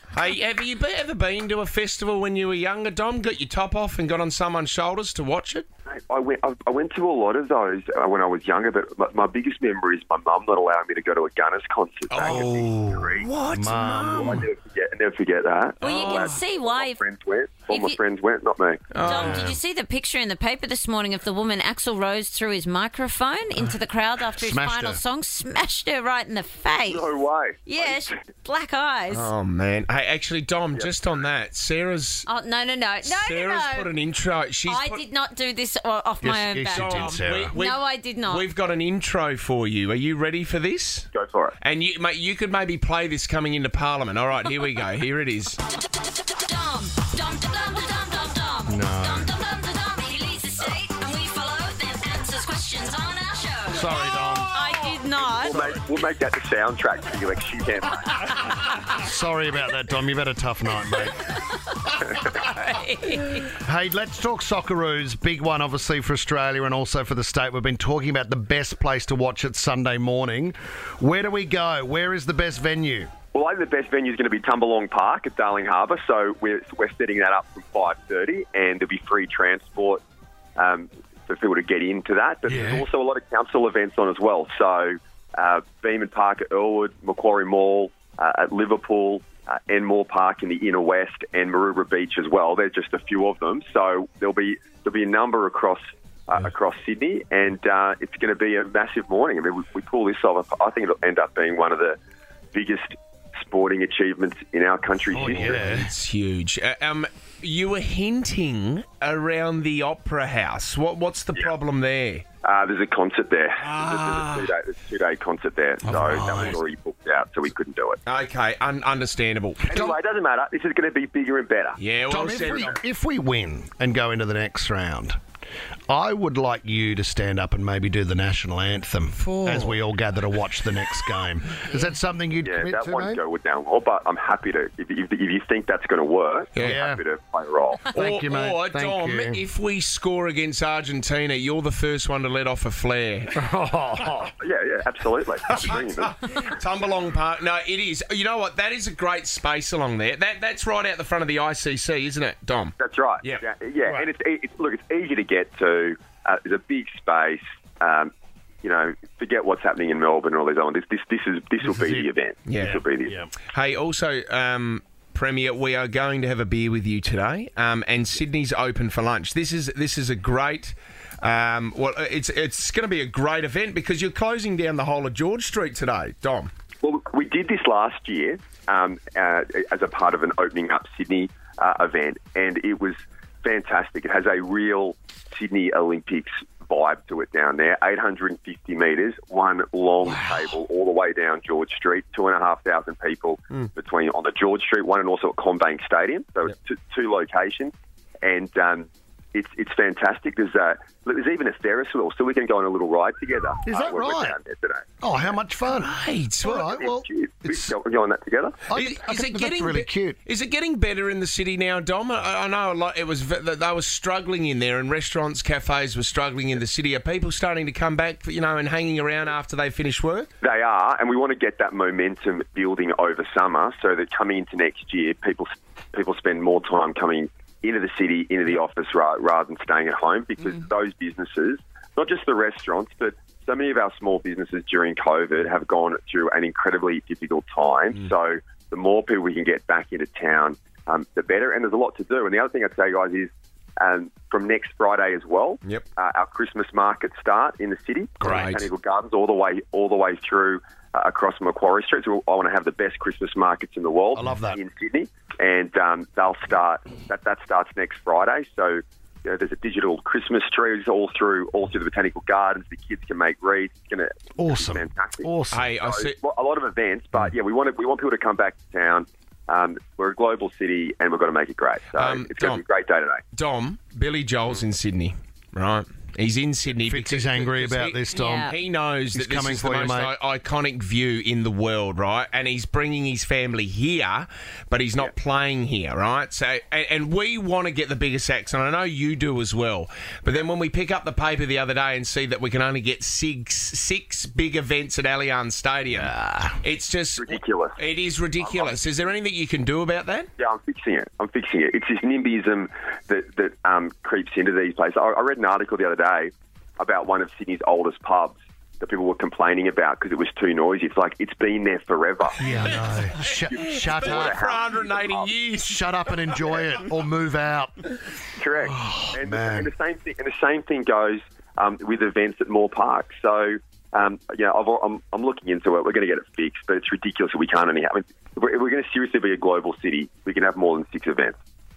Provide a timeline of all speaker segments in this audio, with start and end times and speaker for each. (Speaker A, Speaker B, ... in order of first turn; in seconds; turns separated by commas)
Speaker A: 0.1-5.7, Speaker B: 5.9-13.3, Speaker A: 12.1-12.5, Speaker C: 12.2-14.4, Speaker A: 13.2-14.4, Speaker B: 14.1-18.9, Speaker D: 15.8-17.0, Speaker A: 15.8-16.4, Speaker D: 17.7-18.0, Speaker A: 18.9-19.5, Speaker D: 19.0-27.1, Speaker C: 19.0-19.6, Speaker C: 24.4-25.0, Speaker B: 26.9-28.2, Speaker D: 27.6-29.3, Speaker A: 29.1-32.3, Speaker B: 30.7-31.1, Speaker D: 32.3-33.9, Speaker A: 33.0-35.0, Speaker D: 34.7-38.4, Speaker C: 36.2-37.5, Speaker A: 36.7-41.1, Speaker B: 41.1-41.5, Speaker A: 41.6-45.6, Speaker D: 46.0-55.6, Speaker C: 48.7-49.3, Speaker C: 53.7-54.6, Speaker A: 54.0-55.1, Speaker C: 55.4-55.9, Speaker B: 55.4-58.3, Speaker C: 58.9-61.2, Speaker D: 61.5-63.5, Speaker B: 62.0-62.3, Speaker C: 63.5-73.1, Speaker B: 73.3-80.0, Speaker B: 80.6-102.0, Speaker C: 82.5-82.8, Speaker B: 102.5-105.7, Speaker C: 105.1-105.9, Speaker A: 105.2-112.2, Speaker B: 112.4-118.0, Speaker A: 113.6-114.5, Speaker C: 115.8-116.6, Speaker A: 115.9-116.6, Speaker A: 118.0-119.6, Speaker B: 119.6-121.8, Speaker C: 119.7-120.0, Speaker A: 121.8-122.8, Speaker C: 122.1-125.2, Speaker B: 122.3-122.8, Speaker C: 125.9-133.2, Speaker A: 129.2-129.8, Speaker B: 132.4-137.9, Speaker C: 136.6-137.0, Speaker C: 137.9-139.4, Speaker A: 137.9-143.4, Speaker C: 143.3-144.3, Speaker B: 144.4-146.2, Speaker A: 145.4-153.4, Speaker B: 152.8-158.1, Speaker B: 158.6-163.2, Speaker C: 161.6-162.1, Speaker A: 162.4-162.8, Speaker C: 162.6-163.3, Speaker A: 163.4-176.5, Speaker B: 176.8-204.9, Speaker C: 203.7-204.3, Speaker C: 205.0-207.7, Speaker A: 205.8-206.7, Speaker B: 206.5-208.7, Speaker C: 208.7-210.2, Speaker A: 208.7-220.3, Speaker B: 220.4-273.2, Speaker A: 248.2-248.7, Speaker C: 254.1-254.6, Speaker C: 264.4-265.7, Speaker A: 265.5-266.2, Speaker A: 271.9-272.6, Speaker A: 273.3-300.3, Speaker C: 276.8-278.5, Speaker D: 278.1-278.5, Speaker C: 279.1-280.1, Speaker C: 295.9-296.6, Speaker B: 297.2-297.8, Speaker B: 298.4-299.0, Speaker B: 300.4-315.3, Speaker C: 312.4-314.5, Speaker A: 312.4-316.6, Speaker C: 315.6-317.8, Speaker B: 318.4-331.4, Speaker C: 318.7-319.7